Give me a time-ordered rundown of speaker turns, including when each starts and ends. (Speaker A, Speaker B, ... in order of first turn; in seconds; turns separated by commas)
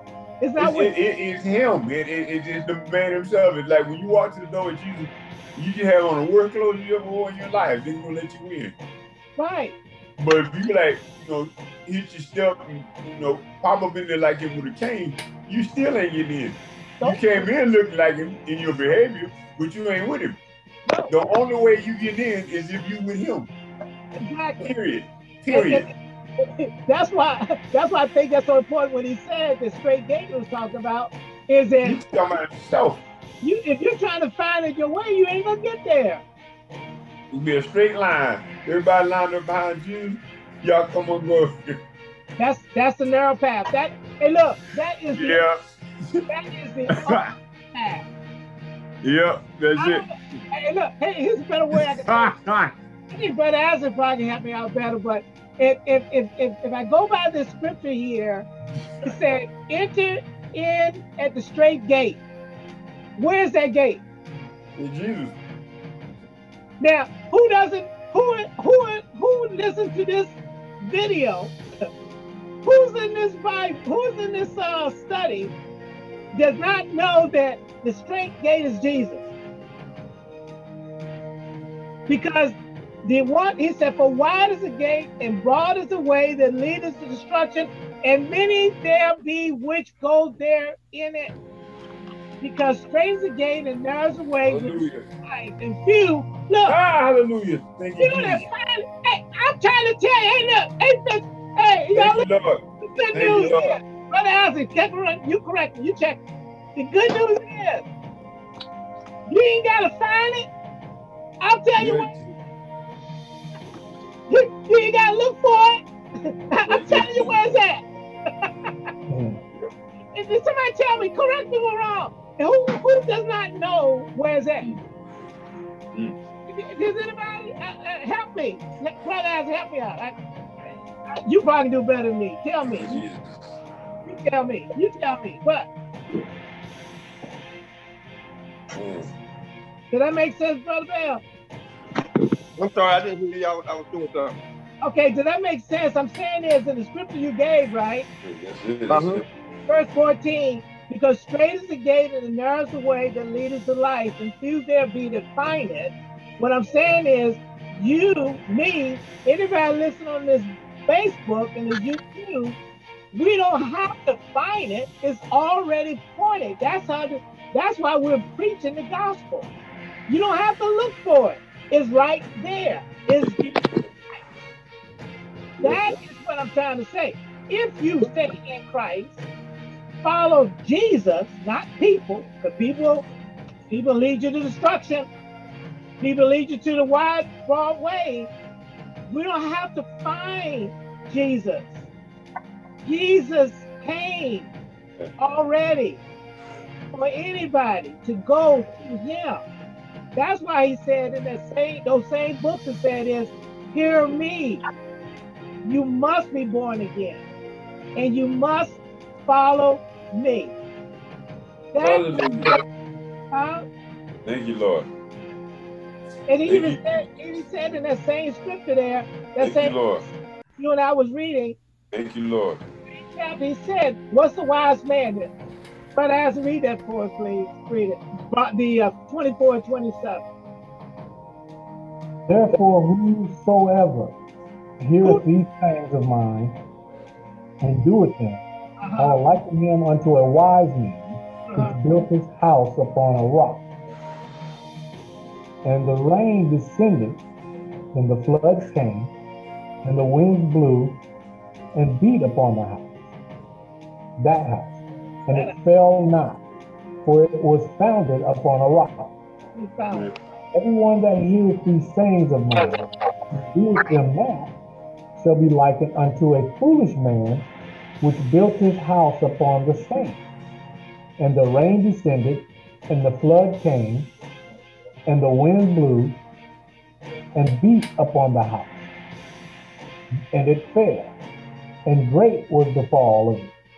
Speaker A: 0.4-0.9, Speaker B: 0.6-8.8, Speaker A: 9.3-9.8, Speaker B: 10.2-20.4, Speaker A: 17.0-17.5, Speaker A: 20.9-21.2, Speaker B: 21.1-23.5, Speaker A: 24.2-24.7, Speaker B: 24.6-25.9, Speaker A: 25.5-32.0, Speaker B: 31.8-33.0, Speaker A: 33.4-36.2, Speaker B: 37.3-41.8, Speaker A: 42.4-45.4, Speaker B: 45.1-46.2, Speaker A: 46.3-48.0, Speaker B: 46.9-47.3, Speaker B: 49.0-50.1, Speaker A: 49.7-52.3, Speaker B: 51.7-52.7, Speaker A: 53.1-58.5, Speaker B: 58.8-59.3, Speaker A: 59.0-62.2, Speaker A: 63.1-64.0, Speaker B: 64.7-65.4, Speaker A: 66.8-71.5, Speaker A: 72.6-75.5, Speaker A: 76.3-79.2, Speaker A: 82.1-91.3, Speaker A: 92.4-96.8, Speaker B: 94.4-95.0, Speaker B: 96.7-98.5, Speaker A: 98.0-102.3, Speaker B: 101.9-103.8, Speaker A: 102.8-106.2, Speaker A: 106.8-107.9, Speaker A: 109.3-110.5, Speaker A: 111.4-112.1, Speaker B: 111.8-112.3, Speaker A: 114.3-117.8, Speaker B: 116.7-117.6, Speaker A: 118.4-118.9, Speaker C: 119.1-119.4, Speaker A: 120.1-124.7, Speaker A: 126.5-130.2, Speaker A: 131.2-133.0, Speaker B: 132.6-133.4, Speaker A: 134.0-135.7, Speaker B: 138.7-139.1, Speaker A: 139.9-141.2, Speaker D: 142.6-144.3, Speaker A: 144.8-148.1, Speaker B: 148.2-149.2, Speaker D: 148.9-149.2, Speaker A: 149.7-162.6, Speaker A: 163.1-169.5, Speaker A: 170.1-173.5, Speaker A: 175.6-179.3, Speaker A: 180.0-183.1, Speaker A: 183.7-185.1, Speaker A: 186.0-188.3, Speaker A: 189.1-191.8, Speaker A: 192.8-194.5, Speaker A: 195.2-196.0, Speaker A: 196.9-199.4, Speaker A: 200.1-204.6, Speaker A: 205.6-207.2, Speaker A: 207.9-210.6, Speaker A: 211.7-212.5, Speaker B: 211.8-212.6, Speaker A: 213.3-213.7, Speaker B: 214.2-214.9, Speaker A: 216.3-220.0, Speaker B: 216.4-217.2, Speaker B: 219.4-220.0, Speaker A: 220.6-221.6, Speaker B: 221.9-222.6, Speaker A: 222.9-225.3, Speaker A: 225.9-230.2, Speaker C: 232.3-234.2, Speaker C: 234.8-236.6, Speaker C: 237.6-238.4, Speaker A: 238.8-239.2, Speaker C: 239.0-243.7, Speaker A: 241.5-241.8, Speaker C: 245.6-247.2, Speaker C: 247.9-249.1, Speaker C: 249.8-251.0, Speaker C: 251.7-252.9, Speaker C: 254.2-256.4, Speaker C: 257.0-259.1, Speaker A: 259.5-260.1, Speaker C: 260.5-262.8, Speaker C: 263.4-264.5, Speaker C: 265.2-267.5, Speaker C: 268.0-270.2, Speaker C: 271.2-274.1, Speaker C: 275.1-276.2, Speaker C: 277.3-278.8, Speaker C: 280.3-281.1, Speaker C: 281.8-283.5